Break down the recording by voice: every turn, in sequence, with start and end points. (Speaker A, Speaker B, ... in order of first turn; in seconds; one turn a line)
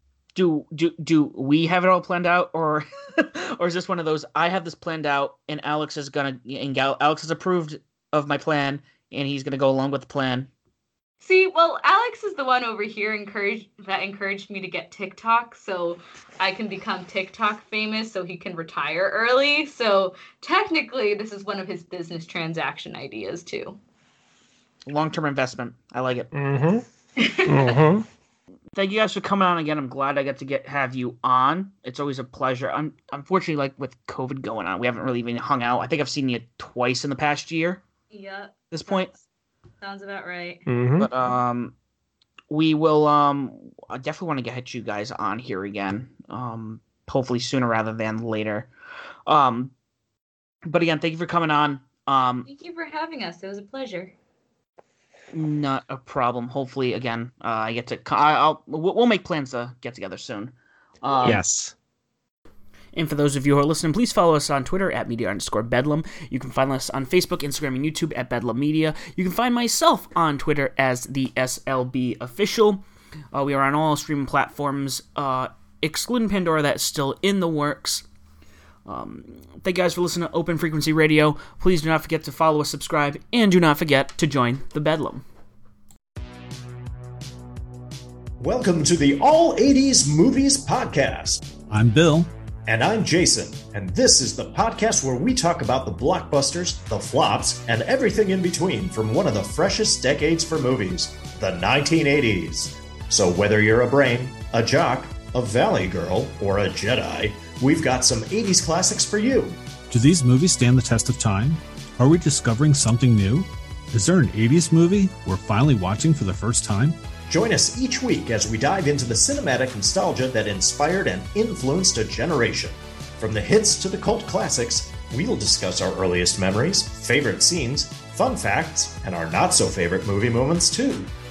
Speaker A: 0.3-10.5
Speaker B: 11.2-23.8
Speaker A: 24.9-26.3
Speaker C: 26.3-26.9
Speaker B: 27.2-27.8
Speaker C: 27.4-28.1
Speaker A: 28.7-37.8
Speaker B: 38.1-39.2
Speaker A: 38.7-39.1
Speaker B: 39.8-40.6
Speaker C: 40.7-41.1
Speaker A: 41.0-41.8
Speaker A: 42.5-48.7
Speaker A: 49.3-49.7
Speaker A: 50.7-52.5
Speaker B: 52.5-54.1
Speaker A: 55.3-61.4
Speaker C: 61.2-61.8
Speaker A: 62.9-78.1
Speaker A: 78.9-85.2
Speaker D: 88.4-91.5
Speaker E: 91.7-92.3
Speaker D: 92.7-109.6
Speaker E: 109.9-117.0
Speaker D: 117.3-131.1